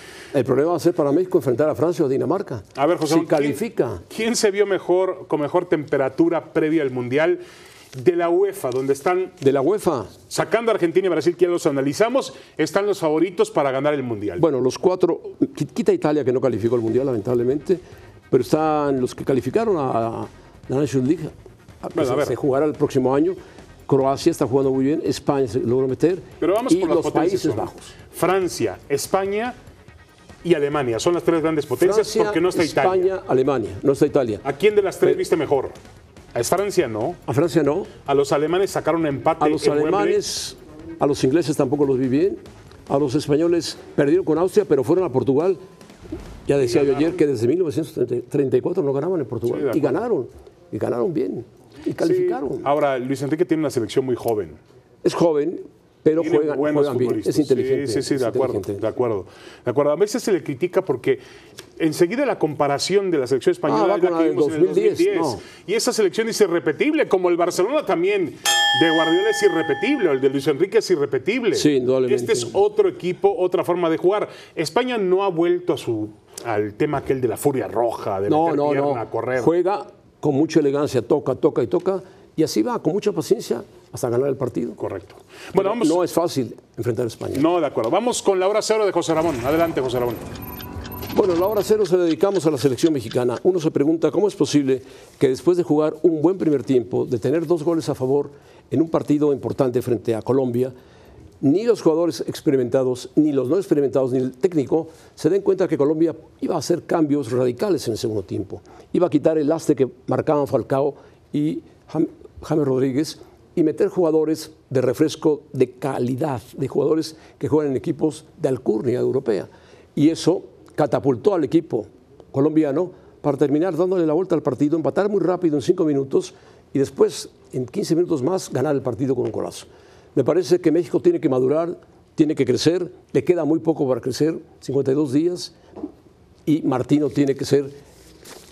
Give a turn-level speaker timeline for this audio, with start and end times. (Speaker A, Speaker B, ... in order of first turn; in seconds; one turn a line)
Speaker A: 0.3-4.0
Speaker B: 2.8-7.4
Speaker B: 7.9-9.4
Speaker A: 9.4-10.1
Speaker B: 10.3-14.4
Speaker A: 14.4-28.0
Speaker B: 21.9-22.4
Speaker B: 26.4-29.6
Speaker B: 30.4-33.1
Speaker A: 31.8-34.5
Speaker B: 34.4-35.8
Speaker B: 36.3-37.2
Speaker A: 37.3-37.9
Speaker B: 38.1-40.2
Speaker A: 39.4-45.6
Speaker A: 46.5-52.7
Speaker B: 46.6-47.2
Speaker B: 49.5-50.0
Speaker B: 52.0-54.6
Speaker A: 55.0-58.8
Speaker B: 56.2-61.2
Speaker B: 61.8-79.5
Speaker A: 63.7-65.4
Speaker A: 71.5-72.6
Speaker A: 78.3-84.8
Speaker B: 84.8-86.0
Speaker A: 85.5-87.5
Speaker B: 87.3-90.2
Speaker A: 91.1-100.7
Speaker A: 101.4-135.6
Speaker A: 136.5-137.8